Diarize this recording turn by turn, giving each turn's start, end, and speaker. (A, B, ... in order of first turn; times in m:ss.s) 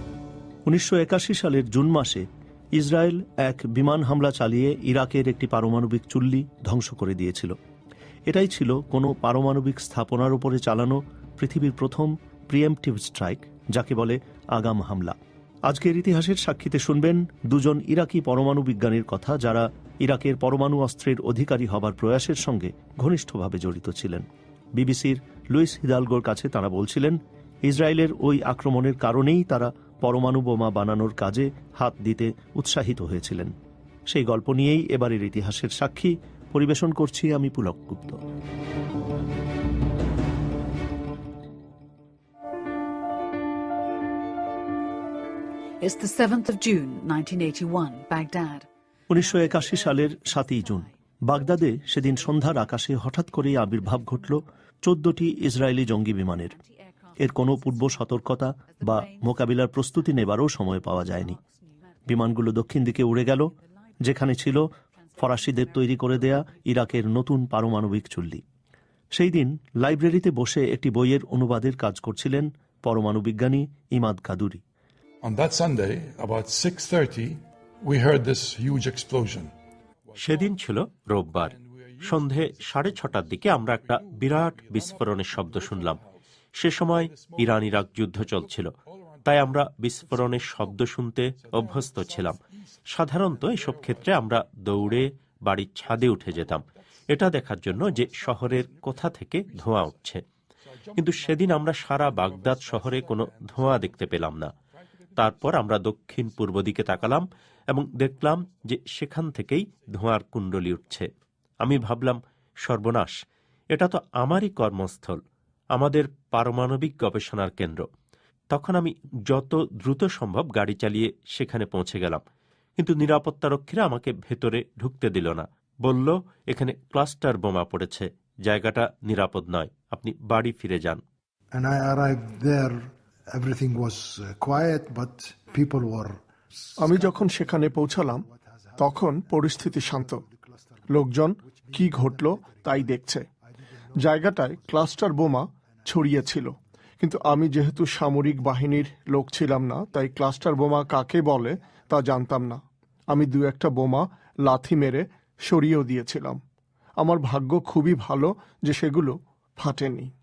0:00.7-0:02.2 A
0:02.8-0:07.5 A
0:08.3-0:15.2 A
0:15.7-0:33.5 A
0:34.1-0:38.2 A
0:45.8-0:48.7 B
0:49.1-0:56.6 A
0:49.2-0:50.9 B
0:56.5-0:58.0 B
0:57.2-1:01.4 A
0:58.6-0:59.3 B
1:00.9-1:01.7 B
1:02.1-1:03.5 A
1:04.0-1:08.4 A
1:05.0-1:06.1 B
1:09.1-1:14.6 A
1:15.2-1:19.5 C
1:20.1-1:20.6 C
1:20.2-1:26.0 D
1:21.4-1:26.1 C
1:26.6-1:28.7 D
1:26.8-1:30.8 C
1:29.3-1:32.4 D
1:31.4-1:35.1 C
1:32.9-1:40.2 D
1:35.8-1:40.1 C
1:40.7-1:44.2 C
1:41.0-1:44.5 D
1:45.2-1:45.6 C
1:45.2-1:51.1 D
1:46.1-1:47.2 C
1:51.6-1:53.2 D
1:53.7-1:55.2 D
1:55.8-1:57.9 D
1:58.5-2:02.2 D
2:02.8-2:11.0 D
2:11.5-2:20.9 E
2:16.8-2:18.2 F
2:18.8-2:20.2 F
2:20.9-2:23.2 F
2:21.4-2:23.0 E
2:23.7-2:24.8 E
2:24.0-2:36.4 F
2:25.8-2:26.5 E
2:37.0-2:40.1 F